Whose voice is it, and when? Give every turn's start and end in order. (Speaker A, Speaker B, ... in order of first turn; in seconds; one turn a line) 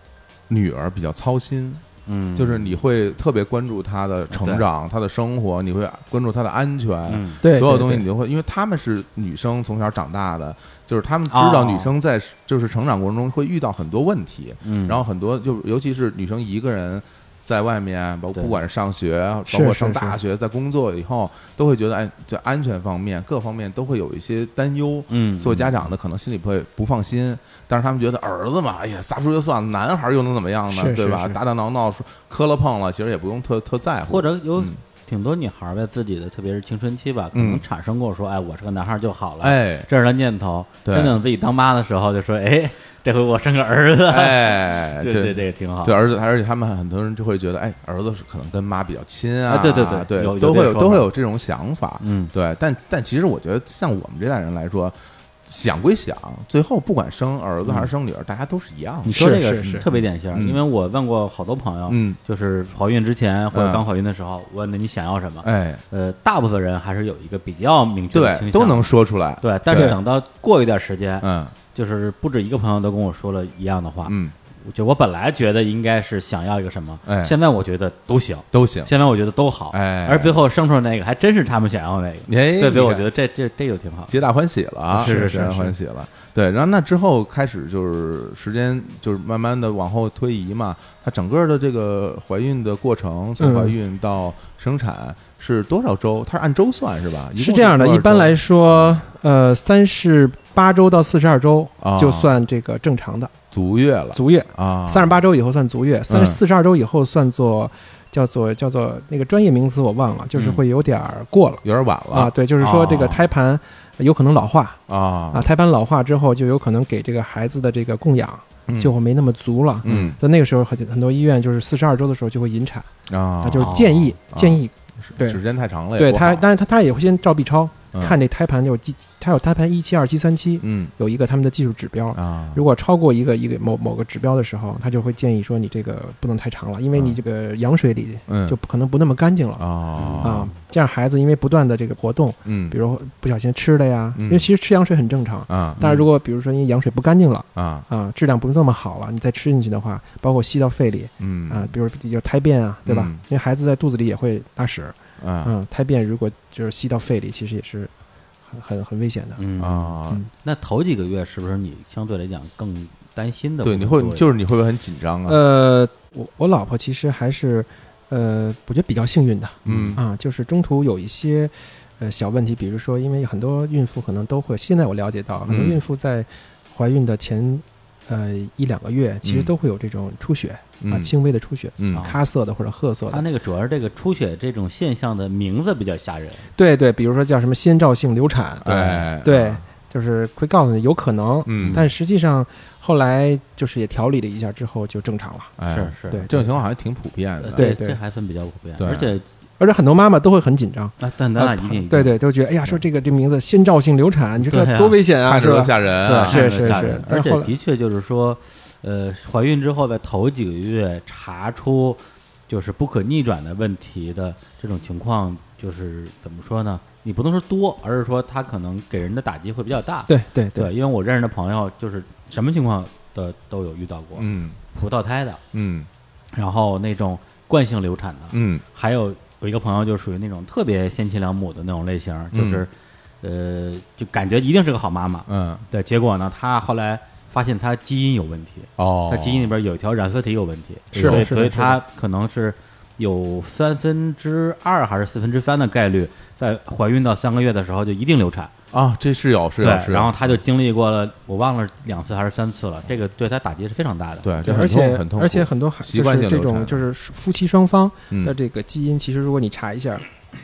Speaker A: 0.5-1.8
Speaker B: 2.0-2.8
Speaker A: 2.4-34.8
Speaker B: 4.3-4.6
Speaker B: 7.1-7.4
Speaker C: 7.4-8.0
Speaker B: 11.3-11.9
Speaker B: 14.6-15.0
Speaker C: 19.5-20.2
Speaker B: 25.1-25.8
Speaker C: 30.7-31.4
Speaker B: 34.1-46.0
Speaker A: 37.3-37.6
Speaker A: 39.4-39.9
Speaker A: 40.8-41.2
Speaker A: 44.1-60.6
Speaker B: 49.5-51.1
Speaker B: 52.0-52.3
Speaker B: 57.6-57.9
Speaker B: 59.0-84.1
Speaker C: 59.1-59.9
Speaker A: 61.9-62.2
Speaker A: 63.5-63.8
Speaker A: 65.4-65.8
Speaker A: 68.1-70.0
Speaker A: 71.2-71.5
Speaker A: 74.0-74.3
Speaker A: 77.0-77.3
Speaker A: 78.5-78.9
Speaker A: 79.7-80.4
Speaker A: 82.3-83.0
Speaker A: 84.1-99.0
Speaker B: 85.0-85.6
Speaker C: 85.0-85.7
Speaker C: 93.4-93.8
Speaker C: 97.3-103.3
Speaker A: 101.8-102.3
Speaker A: 103.5-105.2
Speaker C: 104.1-122.9
Speaker A: 106.1-106.4
Speaker A: 111.6-112.3
Speaker B: 112.6-113.2
Speaker A: 114.9-115.5
Speaker A: 118.7-118.9
Speaker A: 119.8-120.2
Speaker A: 123.1-126.5
Speaker C: 123.4-125.4
Speaker B: 123.6-124.1
Speaker C: 126.0-139.7
Speaker A: 127.9-128.2
Speaker A: 130.6-130.9
Speaker A: 132.1-132.6
Speaker A: 138.3-138.6
Speaker A: 139.6-140.5
Speaker B: 140.0-140.5
Speaker C: 140.2-157.9
Speaker A: 142.4-142.8
Speaker A: 144.2-144.5
Speaker A: 145.5-146.0
Speaker A: 147.6-147.9
Speaker A: 151.2-151.7
Speaker A: 152.8-153.2
Speaker A: 155.2-155.5
Speaker C: 158.5-159.4
Speaker B: 159.4-164.3
Speaker A: 159.6-160.2
Speaker A: 163.6-165.4
Speaker C: 165.2-183.2
Speaker A: 169.7-170.0
Speaker B: 169.7-169.9
Speaker A: 175.4-175.8
Speaker A: 179.2-179.5
Speaker A: 180.8-181.1
Speaker A: 181.8-182.0
Speaker B: 183.1-186.4
Speaker C: 186.6-195.6
Speaker A: 188.6-189.6
Speaker B: 188.7-189.1
Speaker A: 191.4-191.8
Speaker A: 195.6-197.7
Speaker B: 195.7-196.3
Speaker C: 196.1-196.5
Speaker B: 197.4-199.2
Speaker C: 197.5-198.0
Speaker A: 198.8-199.1
Speaker C: 199.6-207.5
Speaker B: 201.0-202.1
Speaker B: 204.4-205.0
Speaker A: 205.2-206.9
Speaker B: 206.0-225.4
Speaker C: 220.1-220.7
Speaker A: 224.2-224.6
Speaker A: 225.5-225.9
Speaker B: 226.3-232.7
Speaker A: 228.3-228.6
Speaker A: 232.3-232.6
Speaker B: 233.2-248.5
Speaker A: 235.3-235.6
Speaker A: 238.8-239.5
Speaker A: 240.9-241.3
Speaker C: 240.9-241.8
Speaker A: 248.7-250.4
Speaker B: 249.6-254.5
Speaker A: 254.2-256.8
Speaker C: 254.4-260.1
Speaker A: 258.1-258.4